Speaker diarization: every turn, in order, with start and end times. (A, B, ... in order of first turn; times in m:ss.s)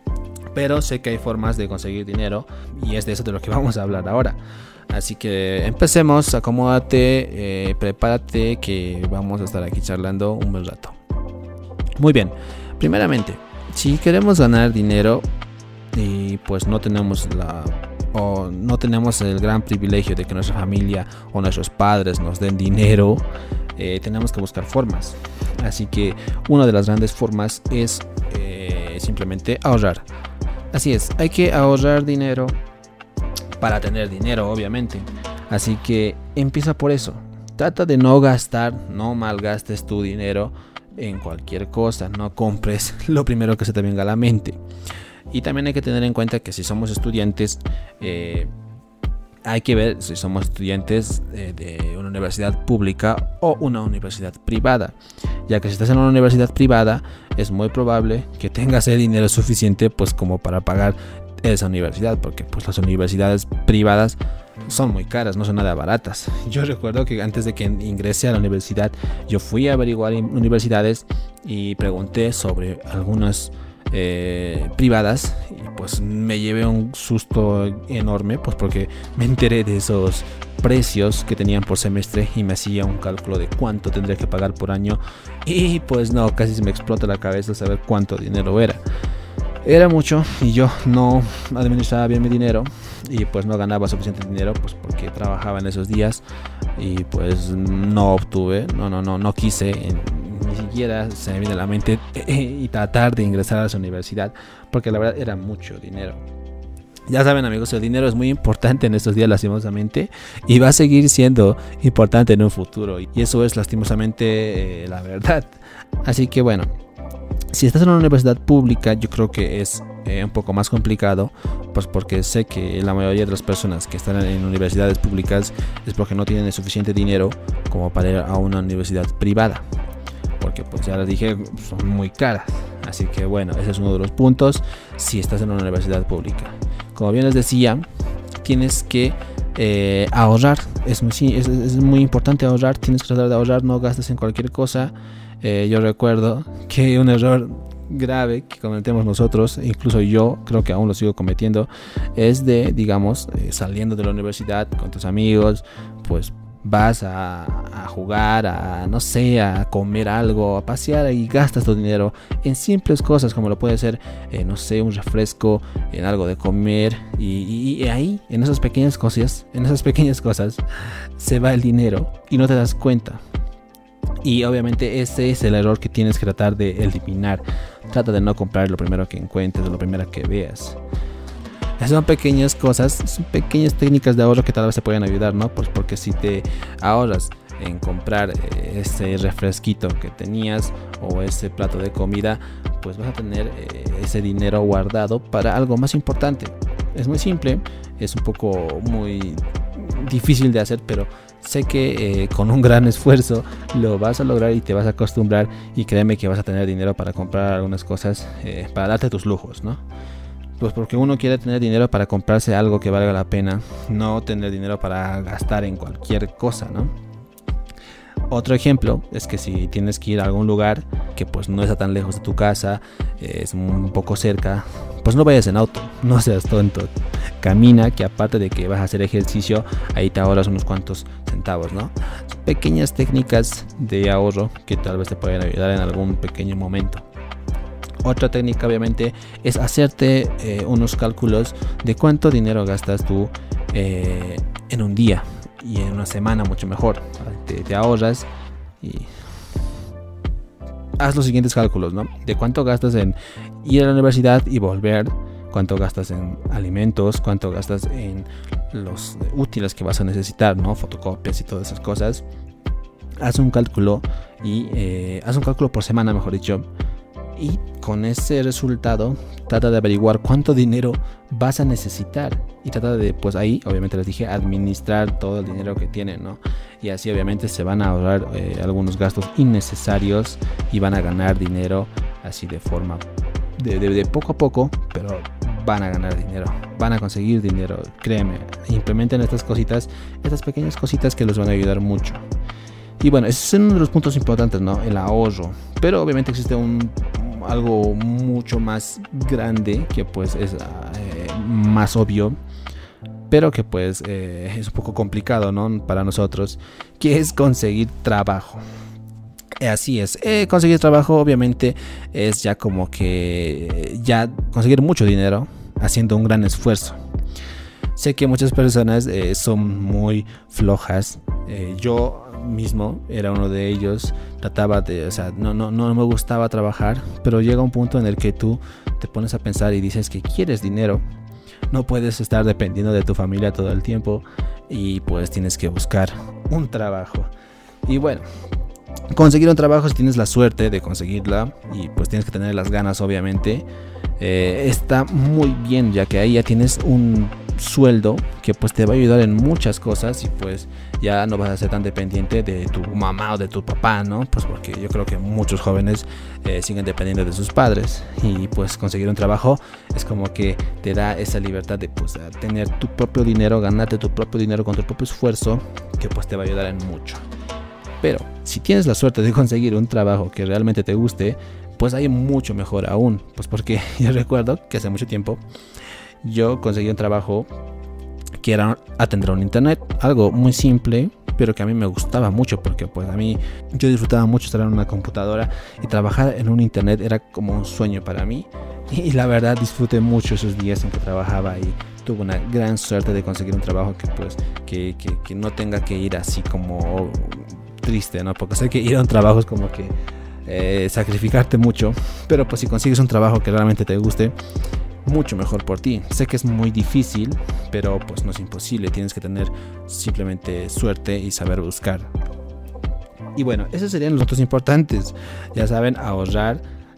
0:00.5-0:04.4 A
0:04.9-0:11.0 A
0:12.0-0:15.3 A
0:15.9-0:30.1 A
0:30.7-0:32.6 A
0:33.6-0:44.6 A
0:45.3-0:48.5 A
0:49.4-0:55.0 A
0:55.5-1:28.8 A
1:29.6-1:36.2 A
1:36.8-1:46.2 A
1:47.1-1:56.7 A
1:57.5-2:09.7 A
2:10.4-2:17.8 A
2:18.4-2:50.6 A
2:51.2-2:53.2 A
2:54.2-3:00.8 A
3:01.8-3:29.8 A
3:30.6-3:37.0 A
3:38.3-3:57.1 A
3:58.0-4:08.3 A
4:08.8-4:09.1 A
4:11.0-4:22.2 A
4:23.2-4:26.7 A
4:27.4-4:43.1 A
4:43.6-4:52.2 A
4:53.0-5:02.4 A
5:03.3-5:08.6 A
5:09.6-5:17.0 A
5:18.0-5:31.0 A
5:31.7-5:37.3 A
5:37.9-5:38.3 A
5:39.1-5:43.7 A
5:44.2-6:07.3 A
6:08.0-6:15.4 A
6:16.2-6:17.5 A
6:18.4-6:44.4 A
6:45.0-6:52.1 A
6:53.4-6:56.6 A